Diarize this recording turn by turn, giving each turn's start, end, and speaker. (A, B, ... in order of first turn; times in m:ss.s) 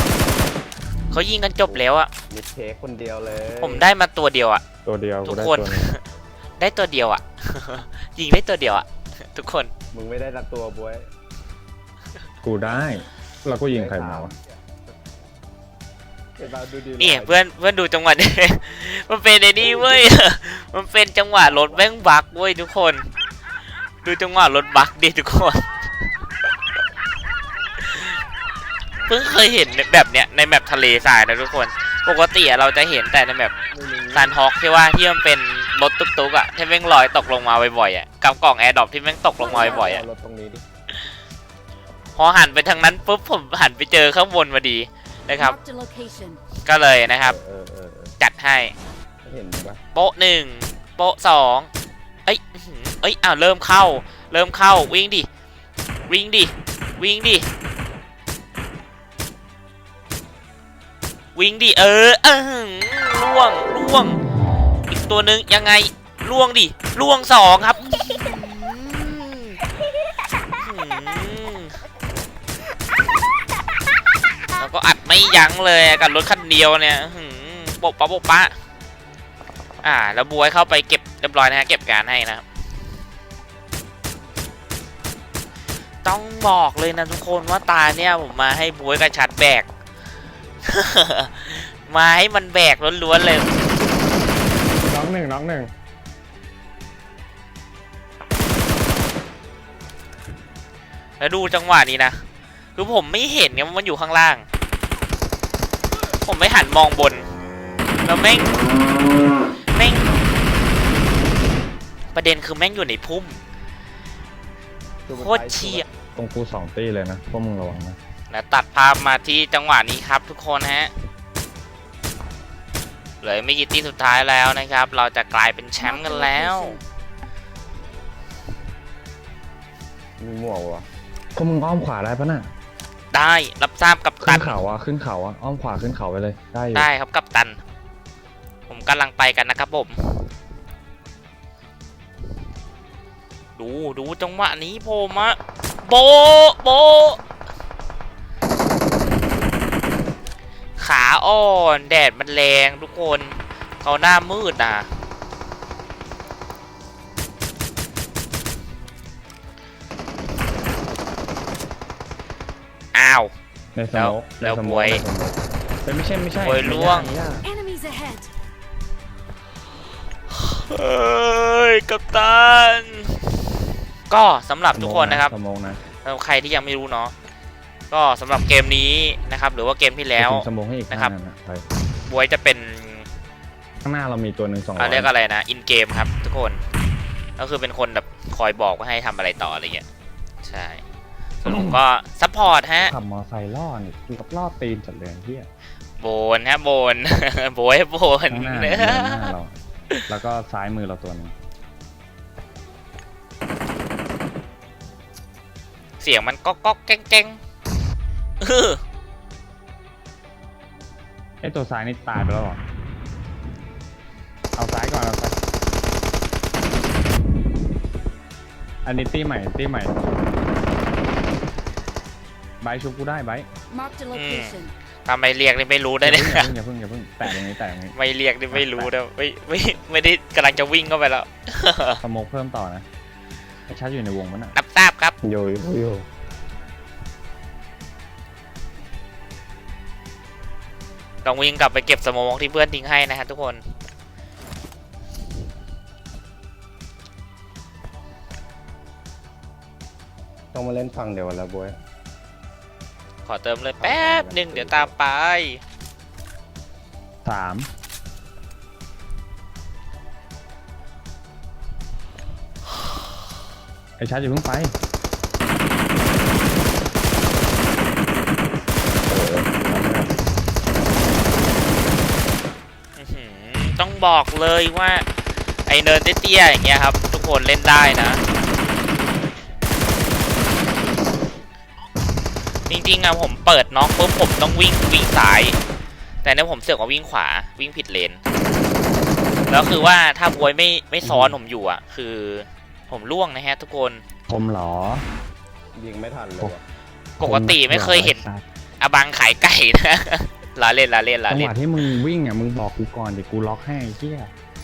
0:01.1-0:02.1 A
0:01.7-0:03.9 B
0:03.6-0:04.6 A
0:04.8-0:05.9 C
0:05.2-0:06.0 A
0:06.6-0:09.7 A
0:09.9-0:11.1 B
0:12.4-0:14.3 C
0:13.7-0:14.5 B
0:16.4-0:17.4 B
0:17.0-0:23.1 A
0:19.7-0:20.0 B
0:21.4-0:21.9 B
0:24.0-0:25.7 A
0:27.8-0:28.2 A
0:29.1-0:33.5 A
0:33.7-0:34.3 B
0:34.1-0:40.0 A
0:39.4-0:40.6 B
0:39.4-0:39.9 D
0:42.2-0:45.6 A
0:45.4-0:46.4 D
0:46.6-0:47.4 A
0:47.2-0:48.1 B
0:48.2-0:48.7 A
0:49.2-0:49.8 B
0:49.9-0:51.7 A
0:52.3-0:55.3 A
0:56.1-0:57.5 A
1:01.4-1:04.2 A
1:04.9-1:09.6 A
1:10.6-1:11.8 A
1:14.6-1:18.5 A
1:19.8-1:22.4 A
1:26.0-1:29.7 A
1:30.6-1:33.5 A
1:34.8-1:35.7 C
1:41.2-1:42.2 A
1:42.8-1:44.5 A
1:46.2-1:47.3 A
1:48.0-1:48.6 A
1:49.7-1:50.2 A
1:52.1-1:53.4 A
1:55.1-1:55.9 B
1:55.1-1:55.8 A
1:56.2-1:58.0 C
1:58.3-2:00.9 A
2:03.2-2:06.8 A
2:05.8-2:06.8 D
2:10.2-2:10.9 B
2:11.4-2:12.5 C
2:13.1-2:14.6 A
2:14.2-2:16.9 C
2:16.7-2:17.6 A
2:18.7-2:20.0 A
2:23.6-2:27.2 A
2:30.8-2:34.9 A
2:42.9-2:43.3 A
2:43.8-2:47.5 C
2:43.9-2:45.0 A
2:46.4-2:47.2 A
2:47.4-2:48.3 D
2:50.3-2:53.2 A
2:54.1-2:55.3 A
2:54.7-2:55.8 C
2:56.0-2:57.1 A
2:57.9-3:01.1 A
3:00.2-3:01.7 C
3:02.0-3:03.1 A
3:03.8-3:05.1 C
3:04.8-3:06.6 A
3:07.4-3:09.9 A
3:10.4-3:10.8 A
3:11.4-3:12.9 A
3:11.4-3:11.8 C
3:12.8-3:15.5 C
3:16.0-3:19.3 A
3:18.3-3:19.6 C
3:20.1-3:21.3 C
3:26.0-3:27.4 A
3:28.4-3:28.8 A
3:31.4-3:32.6 C
3:34.6-3:35.4 C
3:38.8-3:40.0 C
3:42.6-3:43.5 C
3:43.7-3:44.7 D
3:44.1-3:46.5 A
3:46.0-3:48.0 C
3:47.9-3:52.0 A
3:48.5-3:48.9 C
3:52.0-3:52.9 C
3:53.7-3:54.6 C
3:54.6-3:55.2 A
3:55.2-3:56.0 C
4:01.2-4:03.6 A
4:10.5-4:11.8 B
4:13.3-4:15.6 A
4:13.8-4:14.9 B
4:17.2-4:17.7 C
4:24.0-4:24.7 C
4:29.1-4:29.5 B
4:29.6-4:30.2 C
4:33.0-4:35.1 A
4:35.7-4:38.2 A
4:42.7-4:45.6 A
4:46.2-4:48.2 A
4:49.5-4:54.0 A
4:51.0-4:51.4 C
4:54.3-4:55.1 C
4:55.8-4:56.6 B
4:57.2-4:58.3 A
4:57.2-4:58.4 C
4:58.8-5:01.6 A
5:01.3-5:04.3 C